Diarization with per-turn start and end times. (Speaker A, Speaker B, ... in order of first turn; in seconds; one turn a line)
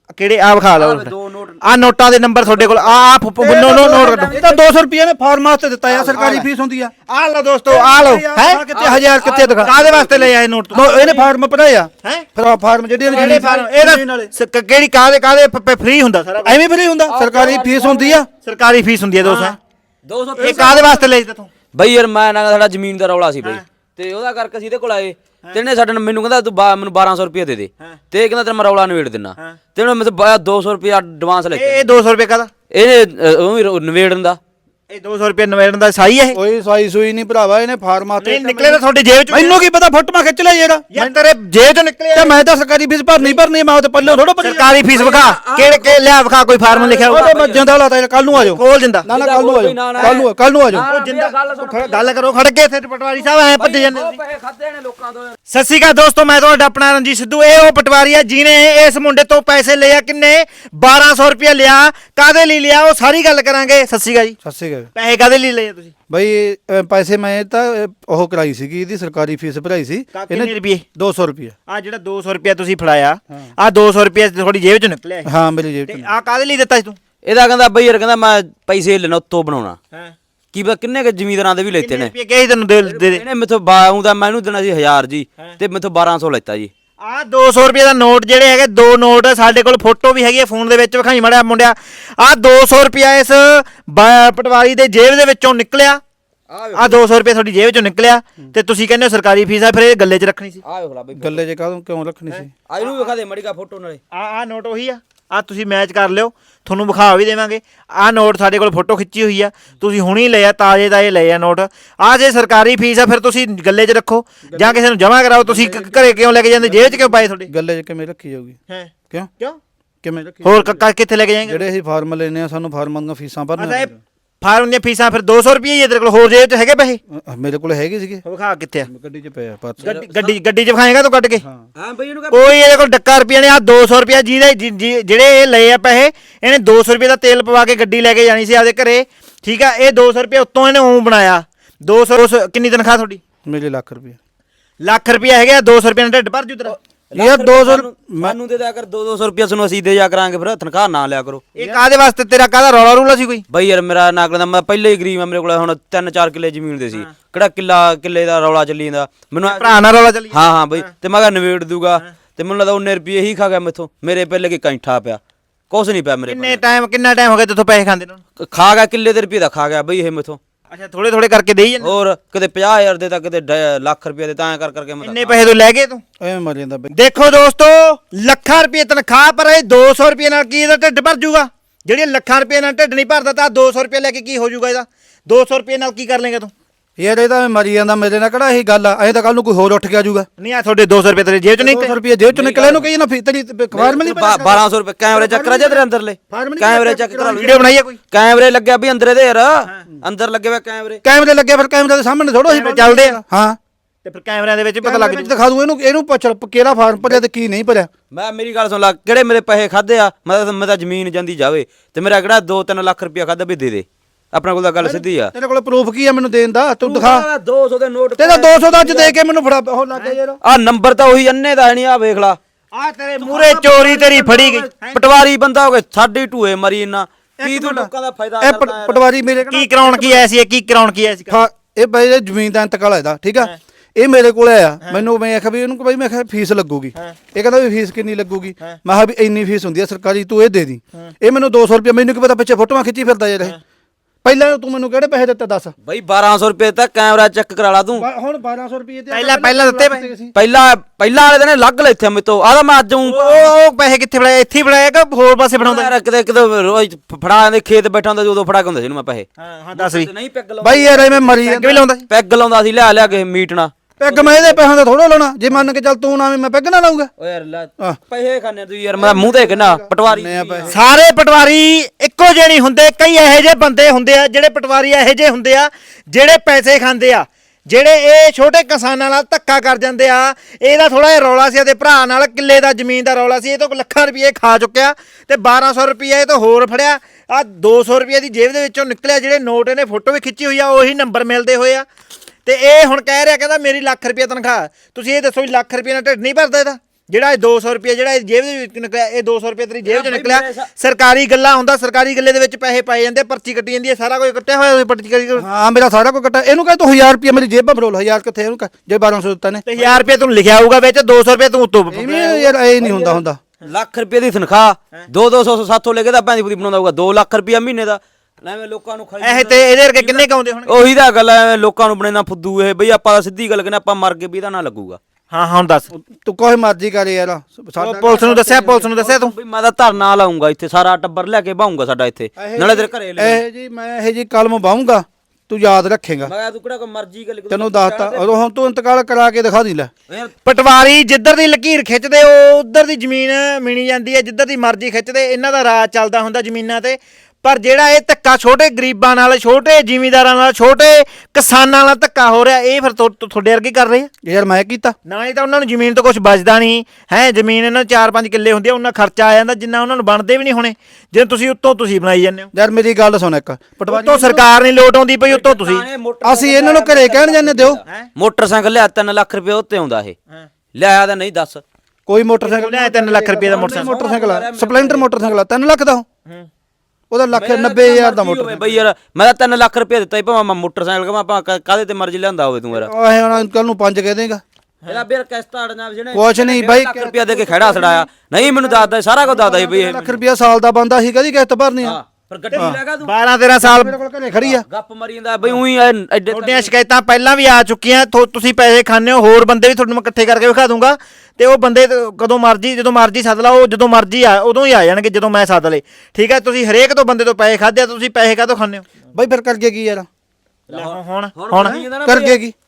Speaker A: 0.2-4.4
Speaker B: 0.8-1.6
Speaker B: 2.5-2.9
Speaker C: 3.4-6.9
Speaker B: 4.0-4.6
Speaker B: 5.9-6.4
Speaker A: 6.2-6.5
Speaker A: 7.1-8.6
Speaker C: 7.7-9.7
Speaker B: 8.7-10.3
Speaker A: 9.6-11.0
Speaker C: 10.7-14.3
Speaker B: 10.9-11.2
Speaker A: 13.1-16.6
Speaker B: 13.1-13.4
Speaker C: 16.4-18.3
Speaker B: 17.1-18.2
Speaker A: 18.4-19.6
Speaker B: 19.2-19.5
Speaker B: 20.1-21.0
Speaker A: 20.4-21.5
Speaker B: 21.7-31.9
Speaker A: 31.5-32.5
Speaker B: 32.7-34.4
Speaker A: 34.9-36.4
Speaker C: 36.3-40.9
Speaker A: 38.2-39.6
Speaker A: 40.9-42.4
Speaker C: 42.1-44.7
Speaker A: 44.4-47.4
Speaker B: 44.9-46.0
Speaker B: 46.7-47.6
Speaker C: 47.1-50.9
Speaker A: 48.3-49.1
Speaker B: 49.1-52.1
Speaker A: 50.9-54.2
Speaker B: 53.6-55.4
Speaker A: 55.5-64.4
Speaker C: 64.4-64.9
Speaker A: 65.0-65.9
Speaker C: 66.1-71.5
Speaker A: 70.1-70.8
Speaker A: 71.7-75.3
Speaker C: 75.2-76.1
Speaker A: 75.9-77.0
Speaker B: 77.2-79.8
Speaker B: 80.5-82.1
Speaker A: 81.8-83.2
Speaker B: 82.8-86.7
Speaker A: 87.0-96.0
Speaker B: 96.5-97.0
Speaker A: 96.8-100.6
Speaker B: 100.6-101.4
Speaker C: 101.2-102.5
Speaker B: 102.7-104.0
Speaker A: 104.1-117.5
Speaker C: 114.5-114.8
Speaker C: 115.4-118.6
Speaker A: 118.7-119.6
Speaker C: 120.0-120.8
Speaker A: 120.4-121.7
Speaker C: 121.5-124.0
Speaker A: 123.6-127.0
Speaker C: 127.1-128.2
Speaker A: 128.2-128.9
Speaker C: 128.9-129.9
Speaker B: 129.8-130.4
Speaker A: 129.8-131.4
Speaker B: 131.8-132.5
Speaker A: 132.3-143.2
Speaker C: 143.5-144.2
Speaker A: 144.8-146.8
Speaker B: 146.7-151.8
Speaker C: 147.1-148.4
Speaker A: 151.6-153.4
Speaker B: 153.5-159.8
Speaker A: 159.4-160.9
Speaker B: 160.3-166.6
Speaker A: 166.3-168.2
Speaker B: 168.4-170.4
Speaker A: 170.7-171.9
Speaker B: 171.8-175.4
Speaker A: 175.0-176.0
Speaker C: 176.2-176.9
Speaker A: 176.9-186.5
Speaker C: 187.0-190.3
Speaker A: 190.4-191.9
Speaker C: 191.6-197.6
Speaker B: 192.3-192.8
Speaker B: 193.7-197.5
Speaker A: 197.3-198.0
Speaker B: 198.1-201.0
Speaker C: 201.0-203.6
Speaker A: 202.5-203.2
Speaker A: 204.1-205.3
Speaker C: 204.8-207.9
Speaker B: 208.1-215.3
Speaker C: 214.8-217.3
Speaker B: 216.8-219.2
Speaker C: 218.2-220.4
Speaker B: 220.4-222.4
Speaker A: 222.7-225.0
Speaker B: 223.0-229.0
Speaker C: 227.4-230.3
Speaker A: 229.5-231.4
Speaker C: 231.3-243.6
Speaker C: 244.2-245.7
Speaker B: 245.8-248.1
Speaker C: 247.9-250.3
Speaker A: 249.1-250.1
Speaker B: 250.3-253.5
Speaker A: 253.0-255.9
Speaker B: 255.6-261.3
Speaker A: 259.4-260.1
Speaker C: 260.6-261.8
Speaker A: 261.4-262.1
Speaker B: 262.1-264.6
Speaker C: 264.0-267.1
Speaker B: 267.2-270.7
Speaker C: 269.0-270.7
Speaker A: 270.7-291.9
Speaker A: 292.4-305.4
Speaker B: 299.8-300.7
Speaker C: 305.4-309.6
Speaker A: 309.7-312.5
Speaker C: 311.9-313.4
Speaker B: 312.2-325.0
Speaker A: 319.2-320.7
Speaker A: 325.3-325.9
Speaker C: 325.9-328.9
Speaker A: 327.8-329.3
Speaker B: 329.0-333.4
Speaker C: 332.4-336.3
Speaker B: 336.2-338.3
Speaker C: 337.5-339.9
Speaker A: 340.4-354.1
Speaker C: 354.2-354.9
Speaker A: 355.1-362.5
Speaker C: 362.5-364.4
Speaker A: 363.9-365.9
Speaker B: 365.3-370.1
Speaker C: 366.2-367.8
Speaker B: 370.8-371.6
Speaker C: 372.1-376.1
Speaker A: 372.4-373.9
Speaker B: 373.5-375.1
Speaker C: 377.1-378.8
Speaker B: 377.3-382.9
Speaker C: 382.7-384.4
Speaker B: 384.9-390.2
Speaker C: 386.1-392.0
Speaker B: 391.8-393.1
Speaker A: 392.5-394.0
Speaker C: 393.6-394.7
Speaker B: 394.3-396.7
Speaker A: 396.3-408.9
Speaker C: 409.1-410.1
Speaker A: 410.7-411.8
Speaker B: 410.7-412.4
Speaker C: 411.6-412.5